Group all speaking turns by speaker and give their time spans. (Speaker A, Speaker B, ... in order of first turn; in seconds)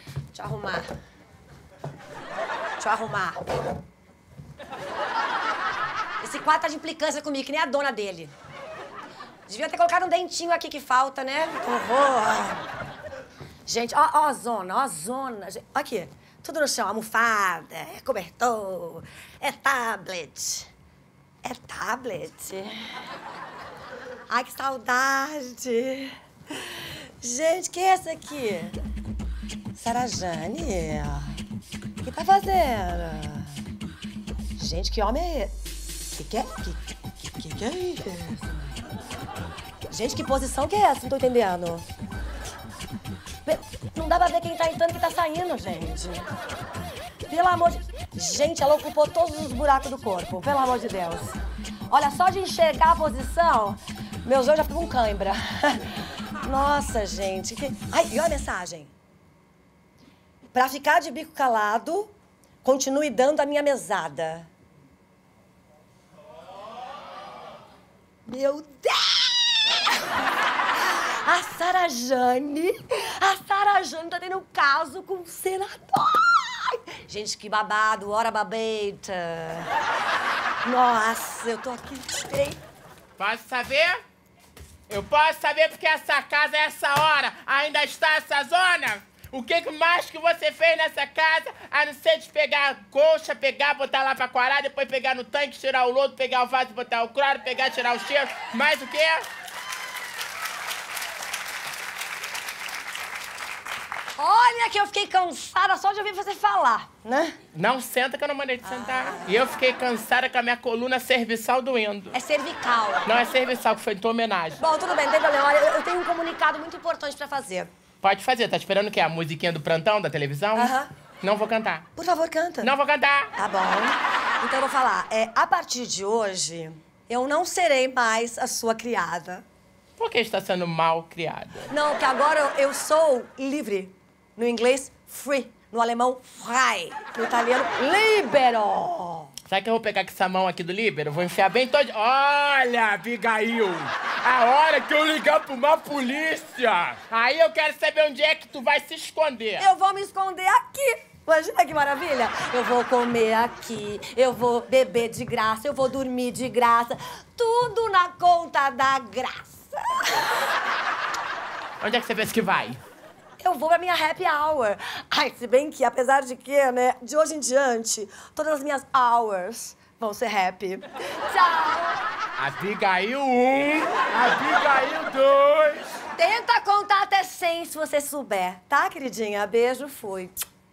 Speaker A: 0.3-0.9, 2.8-3.4, 6.2-8.3, 9.5-12.6, 13.7-20.7, 21.4-22.7, 24.3-28.8, 29.7-31.3, 32.0-33.5, 34.6-35.5, 36.1-38.5, 39.9-41.9, 43.5-46.3, 47.3-51.4, 51.9-58.9, 60.5-64.5, 68.2-69.8, 70.8-79.7, 80.6-82.6, 104.2-107.4, 108.7-109.3, 112.1-113.1, 114.6-117.7, 120.5-120.9, 122.0-122.7, 123.4-129.4, 131.7-139.3, 149.6-160.3, 163.4-172.0, 176.2-180.3
Speaker B: 83.2-84.0, 84.9-99.2, 107.5-112.1, 113.0-114.6, 118.0-121.9, 122.6-123.3, 130.0-131.7, 139.5-149.7, 161.8-162.8, 172.4-175.9